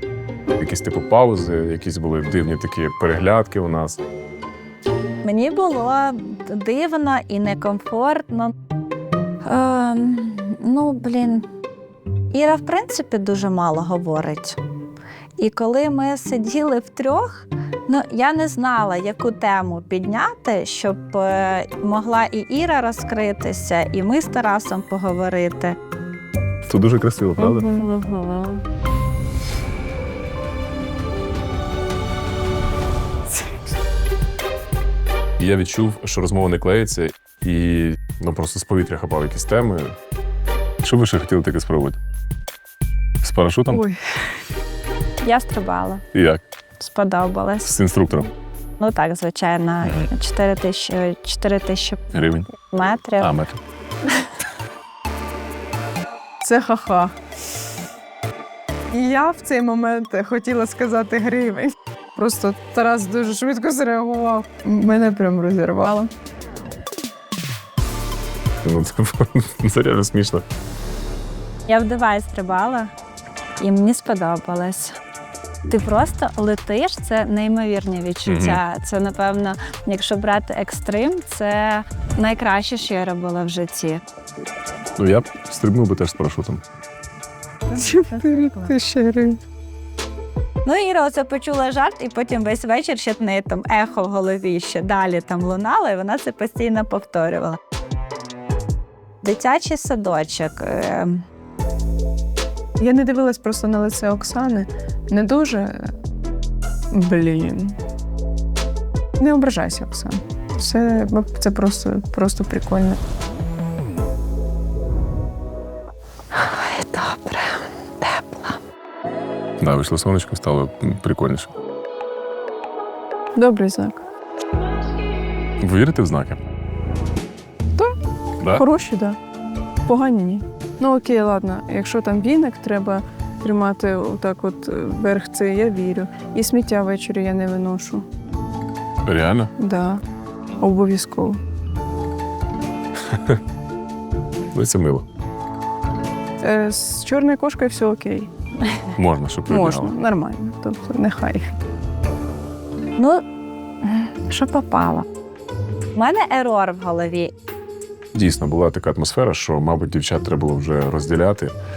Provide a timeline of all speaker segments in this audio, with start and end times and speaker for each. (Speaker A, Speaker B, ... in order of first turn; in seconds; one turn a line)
Speaker A: 0.6-4.0
Speaker B: 5.2-8.5
Speaker B: 9.4-11.5
Speaker B: 12.3-14.6
Speaker B: 15.4-25.8
Speaker A: 26.6-27.7
Speaker B: 27.4-28.6
Speaker A: 35.4-39.9
Speaker A: 40.8-42.0
Speaker A: 43.2-43.8
Speaker C: 43.7-44.1
Speaker B: 45.2-46.0
Speaker A: 46.1-46.4
Speaker B: 46.8-47.7
Speaker A: 47.6-48.3
Speaker B: 48.8-52.0
Speaker A: 49.8-50.1
Speaker A: 52.1-52.5
Speaker B: 52.6-53.4
Speaker A: 53.2-53.6
Speaker C: 56.4-57.1
Speaker C: 58.9-66.1
Speaker A: 68.6-70.4
Speaker B: 71.7-72.9
Speaker B: 73.6-75.0
Speaker B: 75.7-84.0
Speaker A: 78.2-78.6
Speaker A: 85.0-86.6
Speaker B: 87.7-88.7
Speaker C: 87.7-89.4
Speaker B: 90.6-97.6
Speaker B: 99.2-101.2
Speaker C: 102.8-105.9
Speaker C: 106.9-107.8
Speaker C: 109.2-113.0
Speaker B: 116.4-117.4
Speaker A: 119.6-121.5
Speaker C: 123.3-124.0
Speaker A: 125.6-126.4
Speaker A: 128.4-128.6
Speaker C: 128.5-129.2
Speaker C: 129.8-138.1
Speaker A: 139.0-139.5
Speaker C: 139.6-140.0
Speaker C: 140.6-141.4
Speaker A: 143.1-143.4
Speaker A: 144.5-145.1
Speaker C: 146.4-148.3
Speaker A: 148.9-149.9
Speaker C: 149.5-151.6
Speaker B: 153.0-153.2
Speaker C: 154.3-155.1
Speaker B: 155.9-157.3
Speaker A: 158.1-161.5